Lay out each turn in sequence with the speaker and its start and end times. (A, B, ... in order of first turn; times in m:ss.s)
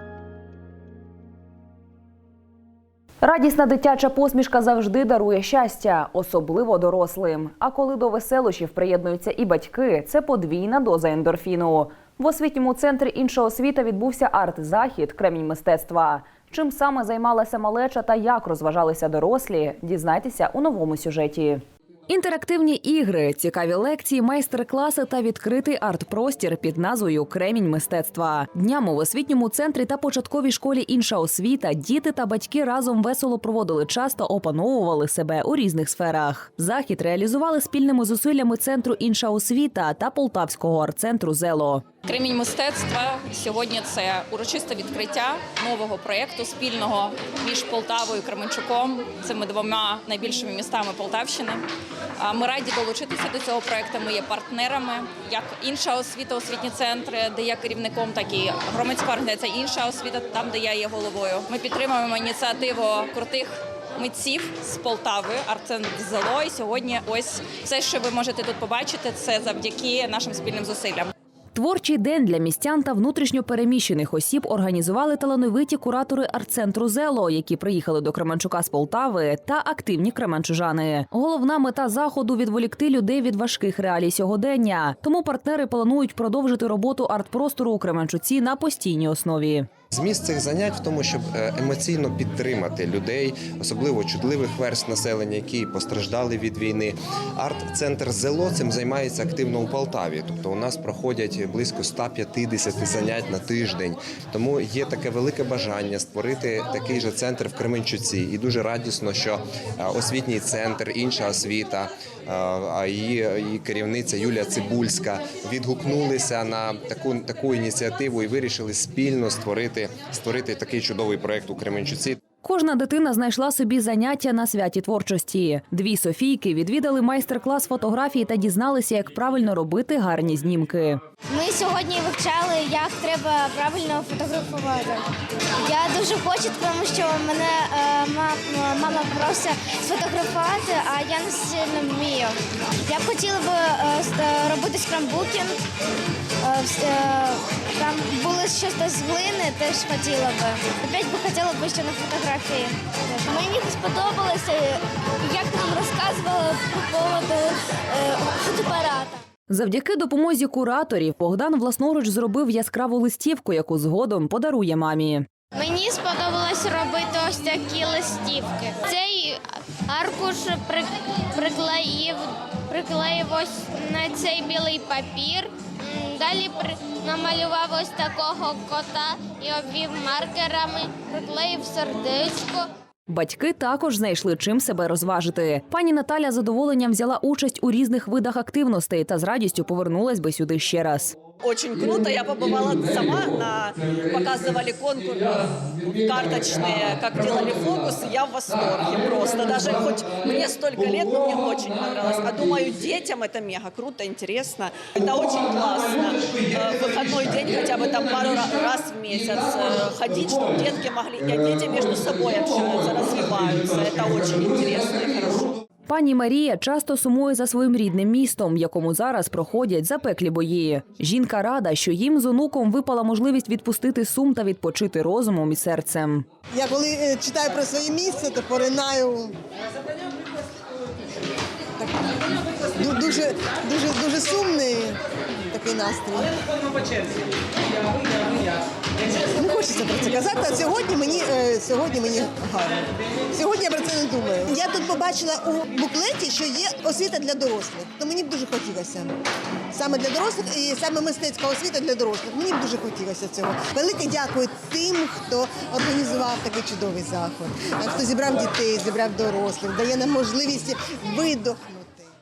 0:03.2-0:41.8 A
0:42.1-0:51.6 B
0:52.2-1:11.1 B
1:11.5-1:29.7 A
1:29.9-2:02.2 C
2:02.4-2:11.0 A
2:11.3-2:15.0 D
2:15.6-2:25.6 D
2:26.4-2:39.2 D
2:39.5-2:45.3 A
2:45.5-3:02.7 D
3:03.1-3:11.2 A
3:11.4-3:35.6 E
3:35.9-3:46.2 A
3:46.5-3:49.3 F
3:51.8-3:55.0 F
3:55.5-3:56.3 F
3:59.1-4:09.1 F
4:09.7-4:22.0 F